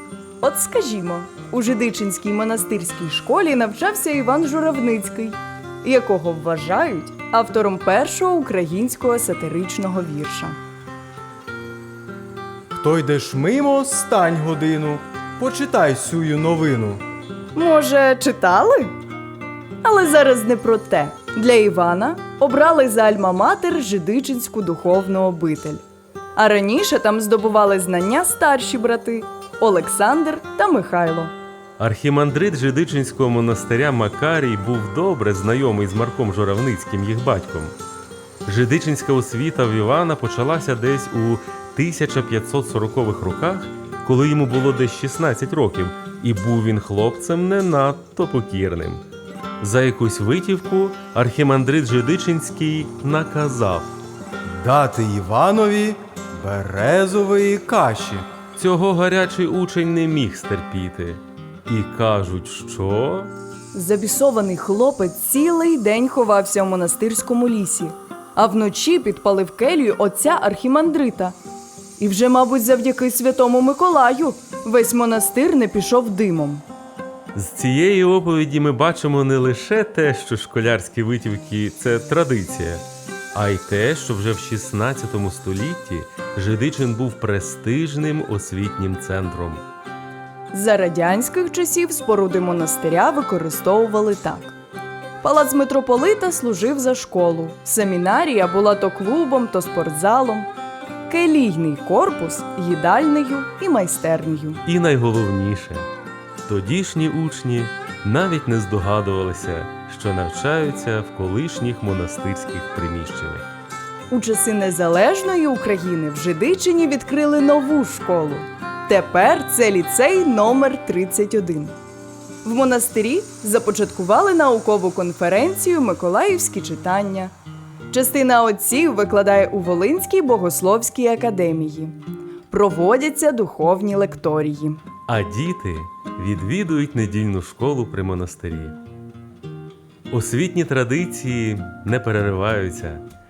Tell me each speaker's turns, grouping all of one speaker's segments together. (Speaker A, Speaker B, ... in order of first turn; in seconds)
Speaker A: 0.4-10.6, 17.5-18.9, 19.8-25.8, 26.4-31.3, 63.7-71.4, 72.0-76.6, 90.5-94.5, 95.2-100.5, 101.1-104.6, 114.1-121.8, 122.4-127.3, 127.9-132.0, 132.5-134.8
Speaker B: 12.7-17.0, 54.5-58.3
Speaker C: 31.8-37.8, 38.5-49.0, 49.6-54.0, 58.5-63.3, 77.3-89.6, 104.6-105.9, 106.5-113.5, 135.1-138.8, 140.1-143.0